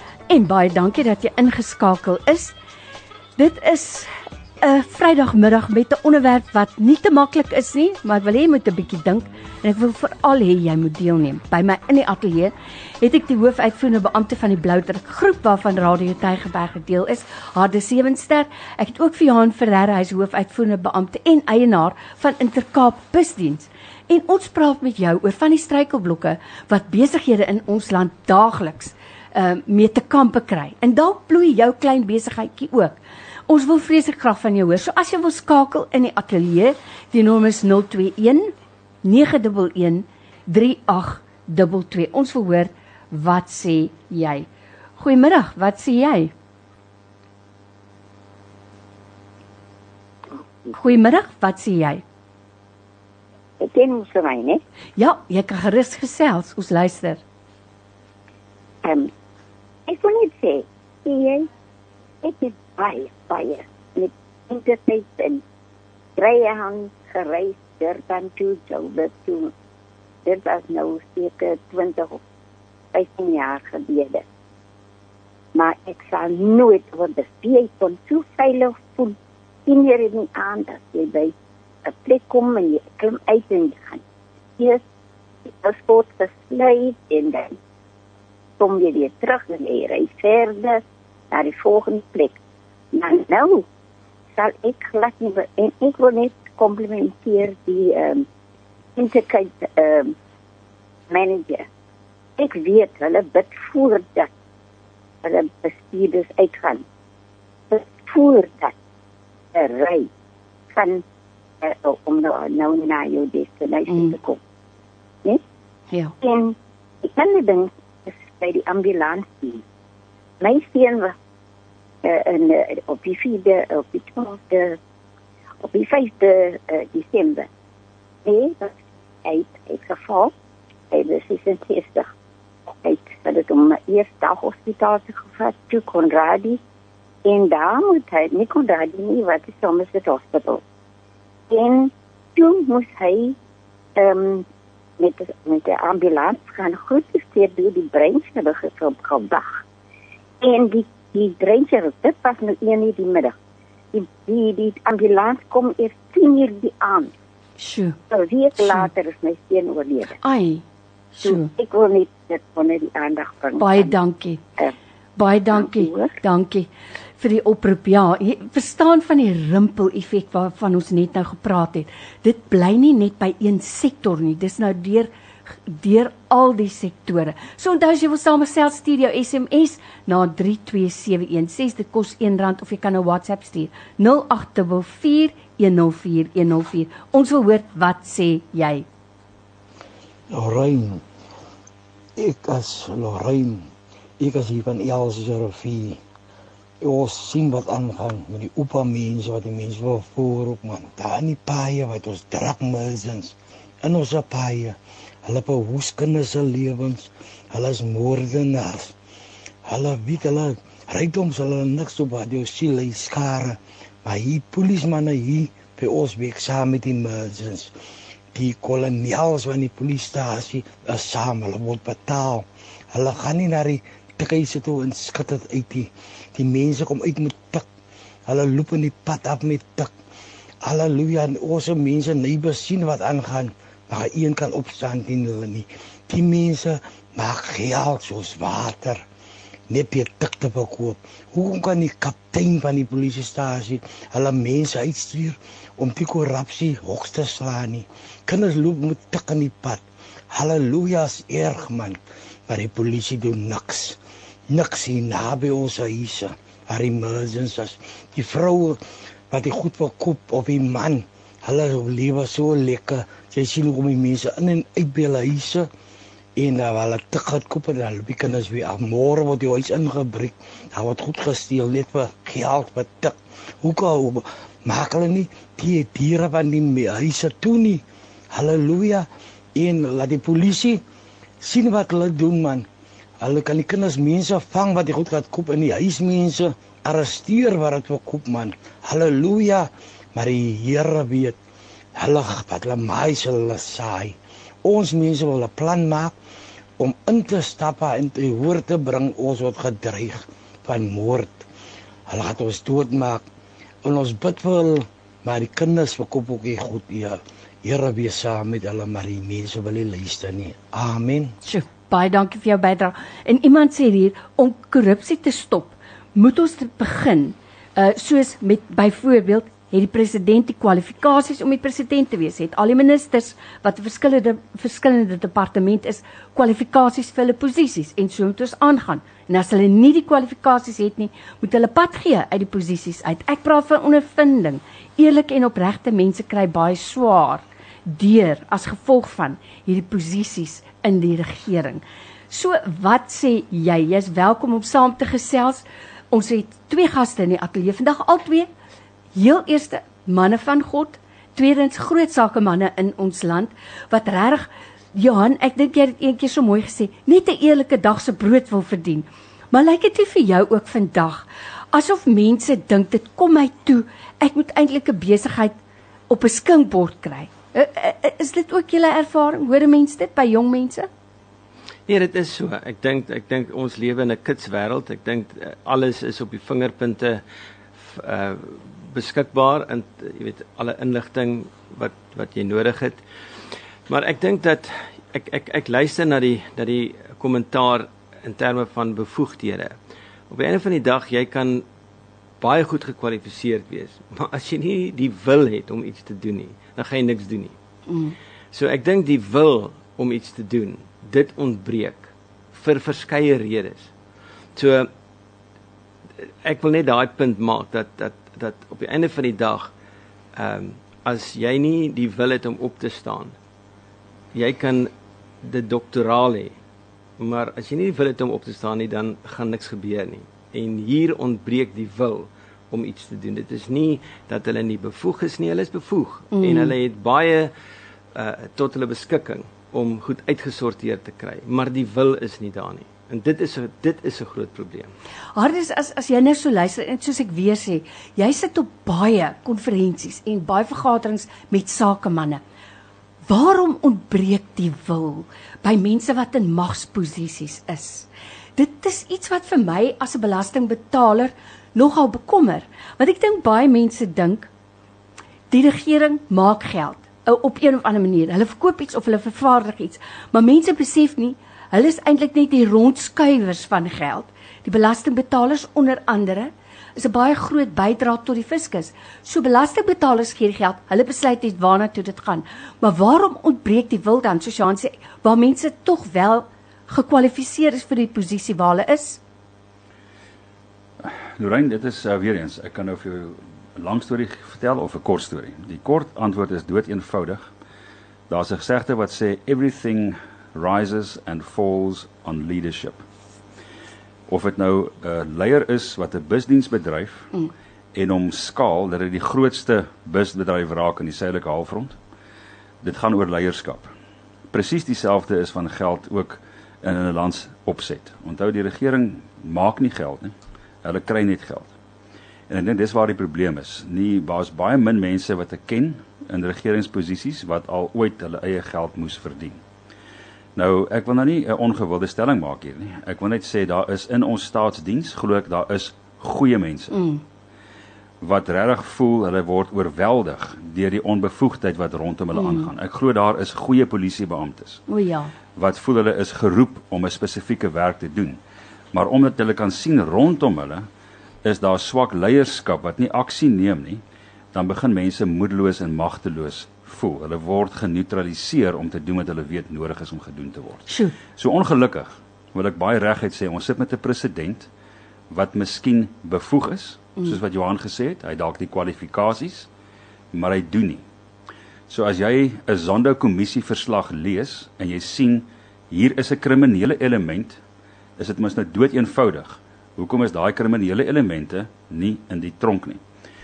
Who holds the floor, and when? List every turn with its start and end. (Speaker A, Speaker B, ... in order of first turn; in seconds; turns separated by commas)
Speaker A: 0.3-2.5, Speaker A: 3.4-33.0, Speaker A: 33.5-38.5, Speaker A: 39.0-44.5, Speaker A: 45.0-46.3, Speaker A: 50.8-52.0, Speaker B: 53.6-54.6, Speaker A: 55.0-57.2, Speaker B: 58.8-59.1, Speaker B: 59.9-61.5, Speaker B: 62.2-65.4, Speaker B: 66.2-69.5, Speaker B: 70.2-72.2, Speaker B: 72.9-74.2, Speaker B: 75.5-81.3, Speaker B: 81.8-84.0, Speaker B: 85.5-87.6, Speaker B: 88.6-92.3, Speaker B: 92.9-93.7, Speaker B: 94.4-98.2, Speaker B: 99.0-100.1, Speaker B: 101.1-101.7, Speaker B: 102.4-104.3, Speaker B: 105.2-106.8, Speaker B: 107.7-108.7, Speaker B: 109.5-110.1, Speaker B: 110.7-111.0, Speaker B: 111.6-114.4, Speaker A: 113.9-114.2, Speaker B: 116.2-119.6, Speaker B: 120.4-121.1, Speaker B: 122.0-124.8, Speaker B: 125.6-127.5, Speaker B: 128.2-130.3, Speaker B: 130.9-132.1, Speaker B: 132.7-136.6, Speaker B: 137.2-140.6, Speaker B: 141.5-143.4, Speaker B: 144.0-144.4, Speaker B: 145.0-149.6, Speaker B: 150.4-153.3, Speaker B: 153.9-157.1, Speaker A: 157.6-158.0, Speaker B: 158.1-160.2, Speaker A: 158.6-158.9, Speaker A: 160.2-160.6, Speaker B: 161.2-164.0, Speaker A: 161.2-161.5, Speaker A: 163.6-164.4, Speaker A: 165.2-166.7, Speaker B: 165.5-166.2, Speaker A: 167.2-175.1, Speaker A: 175.7-188.9, Speaker C: 190.3-191.0, Speaker C: 192.2-193.7, Speaker C: 194.2-196.0, Speaker C: 196.8-208.9, Speaker C: 209.7-217.7, Speaker C: 218.3-227.7, Speaker C: 228.3-229.9, Speaker C: 230.6-239.0, Speaker C: 239.7-254.0, Speaker C: 254.5-258.8, Speaker C: 259.3-265.7, Speaker C: 266.4-277.8, Speaker C: 278.3-280.8, Speaker C: 281.4-282.7, Speaker C: 283.2-291.4, Speaker C: 292.0-296.1, Speaker C: 296.8-301.5, Speaker C: 302.1-303.2, Speaker C: 303.8-311.4, Speaker A: 311.4-348.5, Speaker A: 349.1-365.6, Speaker A: 366.1-370.9, Speaker D: 371.9-377.2, Speaker D: 377.8-383.0, Speaker D: 383.9-389.8, Speaker D: 390.3-391.6, Speaker D: 392.4-397.6, Speaker A: 397.9-398.2, Speaker D: 398.5-403.9, Speaker D: 404.6-404.9, Speaker D: 406.4-409.7, Speaker D: 410.4-413.4, Speaker D: 414.3-414.9, Speaker D: 415.4-416.6, Speaker D: 417.2-427.5, Speaker A: 426.3-426.7, Speaker D: 428.1-434.9, Speaker A: 435.4-442.4, Speaker A: 443.3-454.5, Speaker A: 455.5-479.2, Speaker E: 481.0-487.5, Speaker E: 488.3-493.0, Speaker E: 494.3-497.3, Speaker E: 497.9-502.0, Speaker E: 502.8-503.9, Speaker E: 504.5-511.7, Speaker E: 512.5-519.6, Speaker E: 520.5-527.0, Speaker A: 526.9-527.2, Speaker E: 528.2-534.8, Speaker A: 532.4-532.7, Speaker A: 534.9-535.3, Speaker E: 535.5-538.4, Speaker E: 538.9-540.9, Speaker E: 541.4-544.0, Speaker E: 544.5-554.7, Speaker A: 550.9-551.1, Speaker E: 555.3-559.7, Speaker E: 560.3-561.0, Speaker E: 561.9-567.6, Speaker E: 568.2-573.0